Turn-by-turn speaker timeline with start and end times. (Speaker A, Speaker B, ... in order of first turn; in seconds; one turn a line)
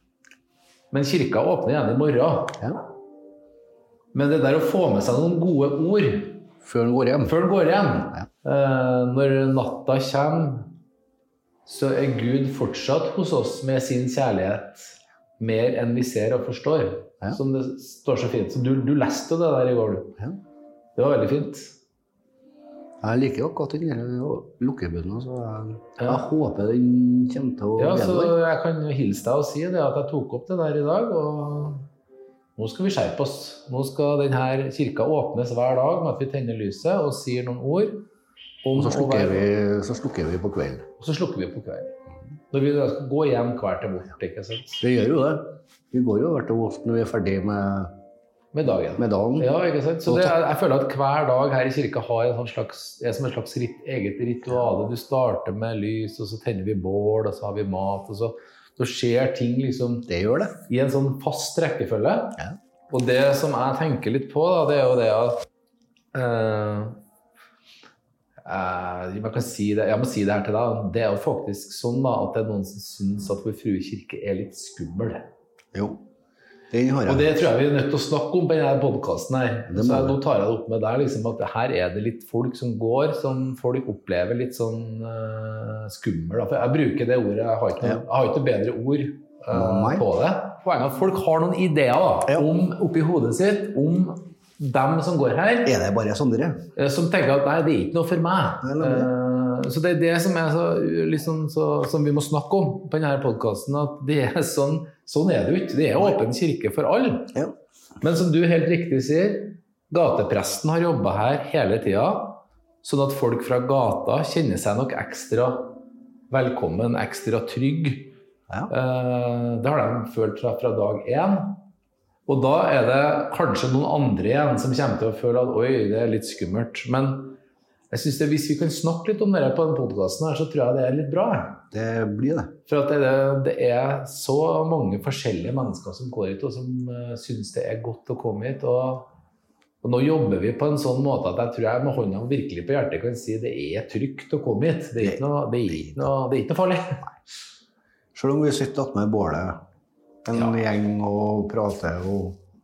Speaker A: 0.9-2.6
Speaker A: 4.1-6.4
Speaker B: 6.6-7.4
Speaker A: 7.2-10.7
Speaker A: 11.7-20.1
Speaker A: 20.9-21.7
Speaker B: 23.0-28.4
Speaker A: 26.0-26.2
Speaker A: 27.8-31.8
Speaker A: 32.6-38.0
Speaker A: 38.6-39.4
Speaker B: 38.8-40.9
Speaker A: 41.0-41.9
Speaker A: 42.5-44.8
Speaker B: 44.8-47.9
Speaker A: 48.5-65.5
Speaker B: 49.0-49.5
Speaker B: 50.1-50.4
Speaker B: 60.1-60.5
Speaker A: 66.1-67.0
Speaker A: 68.4-75.2
Speaker B: 75.7-76.0
Speaker B: 76.7-77.3
Speaker A: 77.1-95.7
Speaker B: 79.7-80.2
Speaker B: 89.5-90.0
Speaker B: 95.6-96.6
Speaker A: 96.8-107.3
Speaker B: 98.6-99.1
Speaker A: 108.0-115.8
Speaker A: 116.3-118.1
Speaker A: 118.7-121.6
Speaker A: 122.2-127.4
Speaker A: 127.9-131.6
Speaker B: 131.7-132.5
Speaker A: 132.7-139.1
Speaker A: 139.8-147.1
Speaker B: 145.0-146.0
Speaker B: 148.1-149.6
Speaker B: 150.2-152.4
Speaker A: 150.3-150.6